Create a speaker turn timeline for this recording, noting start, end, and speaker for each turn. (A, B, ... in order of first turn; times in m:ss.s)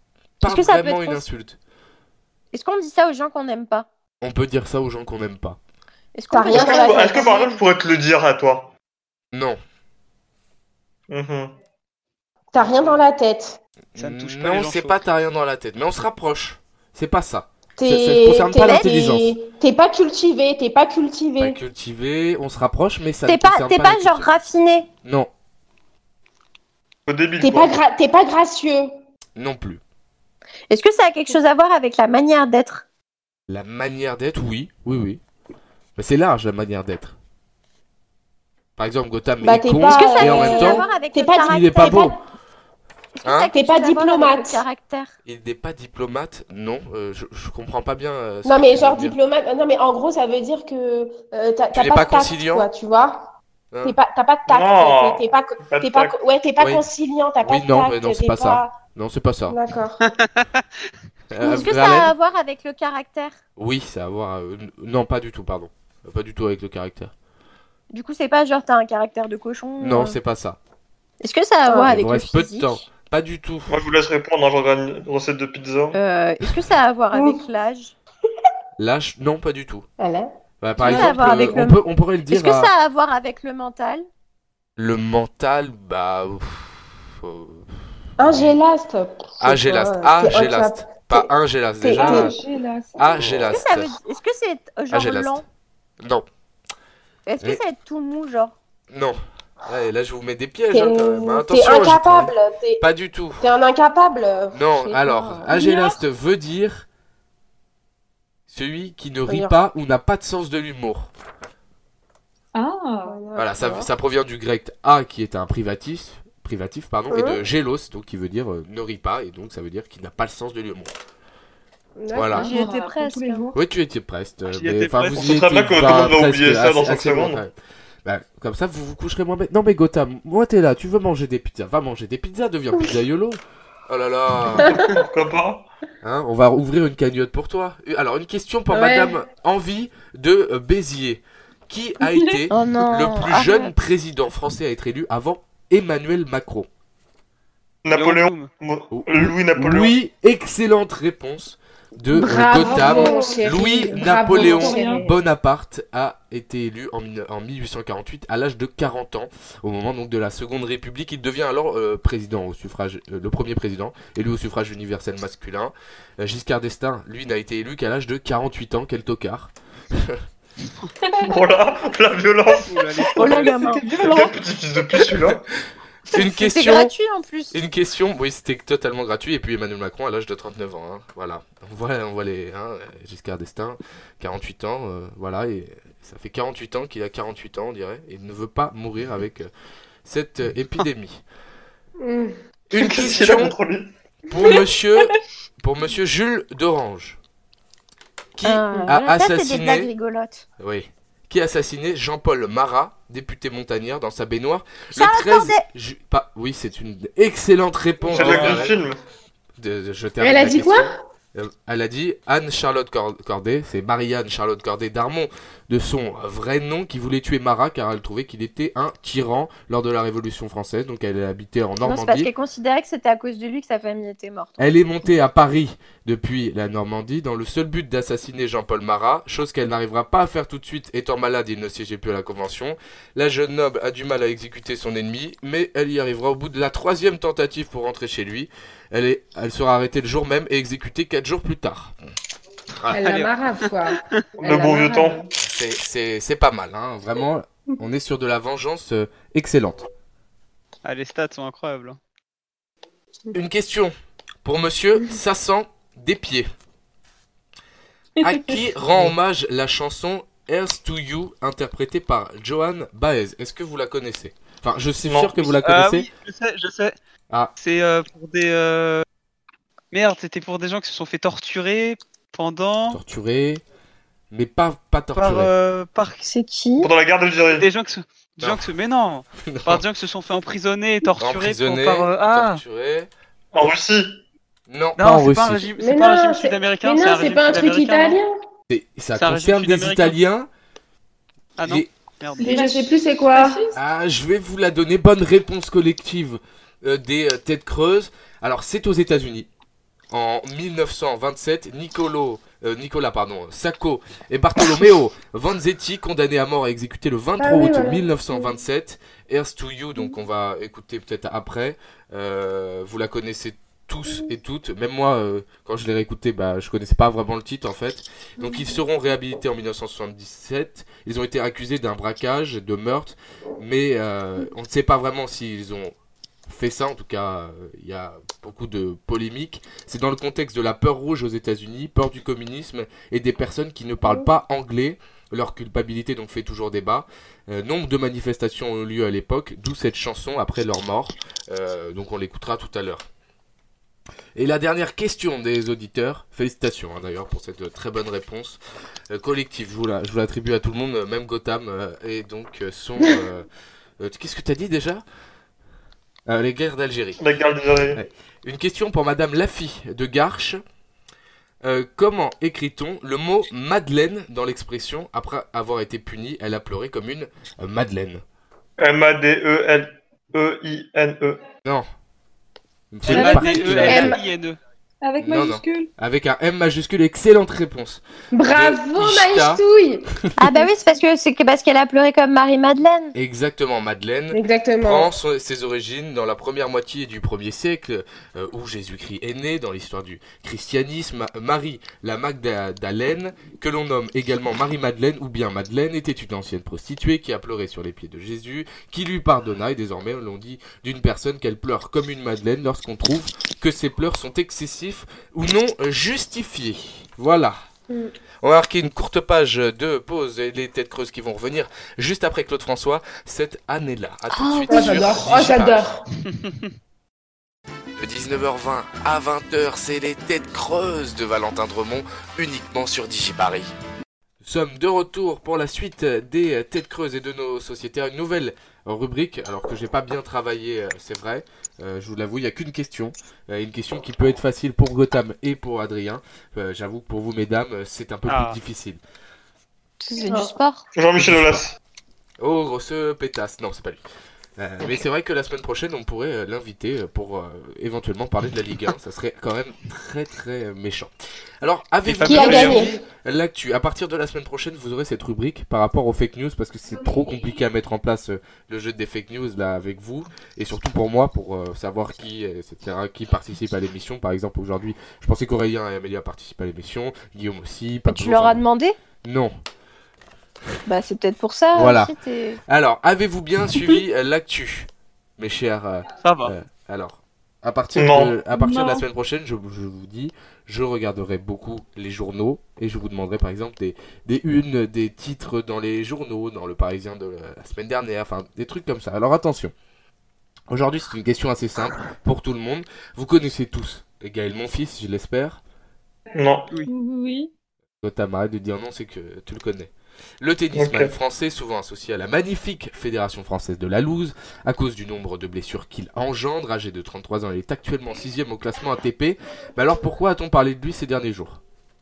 0:00.4-0:01.6 A
0:00.4-0:01.2 B
0:02.5-0:03.9 B
0:04.2-0:05.6 A
0:06.1-0:07.4 B
0:06.3-0:07.5 C
0:06.5-0:08.7 D
0:09.3-0:09.6 A
0:11.1-0:11.5 D
0:12.5-0:13.6 C
0:14.0-0:19.4 A
0:14.0-0:15.0 E
0:17.8-0:21.6 C
0:21.4-0:24.3 A
0:23.2-0:24.9 B
0:25.0-0:25.3 A
0:27.1-0:27.7 D
0:27.4-0:28.9 C
0:29.4-0:29.8 A
0:30.7-0:32.8 B
0:33.5-0:35.2 A
0:36.0-0:37.2 A
0:38.8-0:40.8 A
0:39.4-0:42.2 C
0:39.8-0:42.0 B
0:41.4-0:42.2 A
0:43.2-0:45.1 B
0:43.2-0:43.5 A
0:43.5-0:44.6 C
0:45.2-0:49.2 A
0:48.4-0:58.8 C
0:51.7-0:52.7 A
0:54.5-0:56.1 D
0:56.6-0:56.8 A
0:57.4-0:59.6 A
0:59.5-1:00.0 C
1:00.0-1:00.6 E
1:01.3-1:02.1 A
1:01.4-1:03.4 B
1:03.6-1:07.1 A
1:07.9-1:10.2 B
1:09.8-1:10.6 A
1:11.2-1:12.8 B
1:11.6-1:11.9 C
1:11.8-1:13.8 A
1:13.7-1:16.0 D
1:15.9-1:17.9 B
1:17.1-1:17.4 C
1:18.8-1:19.9 A
1:20.0-1:21.6 C
1:20.6-1:22.7 A
1:20.8-1:24.0 B
1:24.8-1:28.6 A
1:28.2-1:31.3 C
1:29.4-1:32.4 A
1:31.8-1:32.4 C
1:31.9-1:33.3 F
1:33.0-1:33.9 A
1:33.5-1:35.4 B
1:34.9-1:35.4 A
1:36.0-1:36.2 A
1:37.2-1:38.5 B
1:38.9-1:43.5 A
1:40.7-1:42.8 C
1:43.4-1:45.7 C
1:44.5-1:46.8 A
1:45.6-1:45.9 F
1:48.5-1:51.1 A
1:49.3-1:49.5 C
1:52.5-1:53.2 F
1:53.0-1:53.9 C
1:53.4-2:00.9 A
1:57.1-1:57.4 C
2:02.0-2:02.5 C
2:02.1-2:02.5 A
2:02.4-2:03.6 F
2:02.4-2:03.5 B
2:03.5-2:07.5 A
2:04.5-2:05.4 E
2:05.1-2:07.4 D
2:08.0-2:14.8 A
2:14.9-2:15.7 D
2:16.0-2:26.7 A
2:18.7-2:19.2 C
2:22.0-2:22.4 F
2:22.5-2:23.7 B
2:27.8-2:29.9 D
2:27.9-2:28.5 E
2:28.9-2:50.2 A
2:32.1-2:35.1 C
2:32.5-2:35.1 F
2:51.0-2:51.3 F
2:51.2-2:52.7 D
2:52.6-2:53.7 E
2:53.1-2:54.0 B
2:53.3-2:54.4 F
2:54.0-2:55.4 D
2:56.1-2:56.9 A
2:56.1-2:57.6 B
2:57.5-3:09.5 A
3:10.0-3:11.2 A
3:12.0-3:12.4 C
3:12.7-3:13.5 A
3:12.7-3:13.9 D
3:14.3-3:17.2 A
3:18.4-3:19.9 A
3:18.4-3:20.4 B
3:20.6-3:28.8 A
3:24.9-3:25.6 B
3:28.1-3:29.0 D
3:29.6-3:42.3 A
3:30.2-3:31.0 C
3:41.8-3:44.6 B
3:44.6-4:01.9 A
4:02.9-4:03.9 E
4:02.9-4:05.3 C
4:04.4-4:05.2 D
4:05.4-4:09.8 A
4:10.8-4:12.0 E
4:13.3-4:13.9 A
4:14.4-4:16.5 A
4:18.2-4:26.1 A
4:18.2-4:18.5 F
4:25.0-4:25.3 D
4:25.5-4:27.0 E
4:27.6-4:29.0 E
4:29.9-4:33.0 E
4:32.9-4:33.6 A
4:34.3-4:35.5 A
4:35.2-4:36.3 E
4:36.2-4:36.9 B
4:36.8-4:37.7 D
4:37.6-4:42.6 E
4:38.4-4:38.7 A
4:39.5-4:39.8 A
4:41.2-4:43.1 A
4:43.5-4:44.2 D
4:44.7-4:45.7 A
4:45.0-4:48.2 E
4:45.8-4:48.3 C
4:48.7-4:50.5 A
4:49.1-4:50.2 E
4:51.6-4:52.6 E
4:51.6-4:51.9 A
4:52.4-4:53.8 F
4:52.4-4:53.6 C
4:53.7-4:59.5 A
5:00.1-5:25.9 A
5:07.4-5:08.4 C
5:26.5-5:43.0 A
5:44.4-5:53.4 A
5:54.0-5:55.0 A
5:56.3-5:57.2 A
5:57.2-5:58.0 D
5:57.9-6:00.6 A
6:01.6-6:08.2 A
6:08.8-6:11.4 D
6:12.9-6:14.2 A
6:13.0-6:14.6 E
6:13.1-6:14.1 F
6:13.8-6:14.2 C
6:15.0-6:15.9 F
6:15.2-6:19.6 A
6:18.3-6:20.1 C
6:20.4-6:23.1 B
6:23.1-6:47.6 A
6:24.3-6:25.1 C
6:48.4-6:56.0 A
6:54.4-6:54.9 B
6:54.7-6:56.0 C
6:58.0-7:03.7 A
7:04.4-7:19.0 A
7:18.2-7:18.6 E
7:20.0-7:20.8 B
7:20.2-7:20.5 C
7:21.0-7:21.8 D
7:21.2-7:21.6 A
7:22.4-7:24.0 A
7:24.6-7:31.1 A
7:31.6-7:48.6 A
7:32.0-7:32.9 E
7:32.2-7:33.0 C
7:48.0-7:49.0 B
7:49.2-7:49.6 A
7:50.8-7:52.6 B
7:51.7-7:52.1 A
7:52.7-8:09.7 A
7:56.2-7:56.5 E
7:58.0-7:58.4 D
7:58.5-7:59.0 F
8:10.7-8:15.6 A
8:16.3-8:16.7 D
8:16.9-8:17.5 F
8:18.0-8:31.6 A
8:20.7-8:21.1 D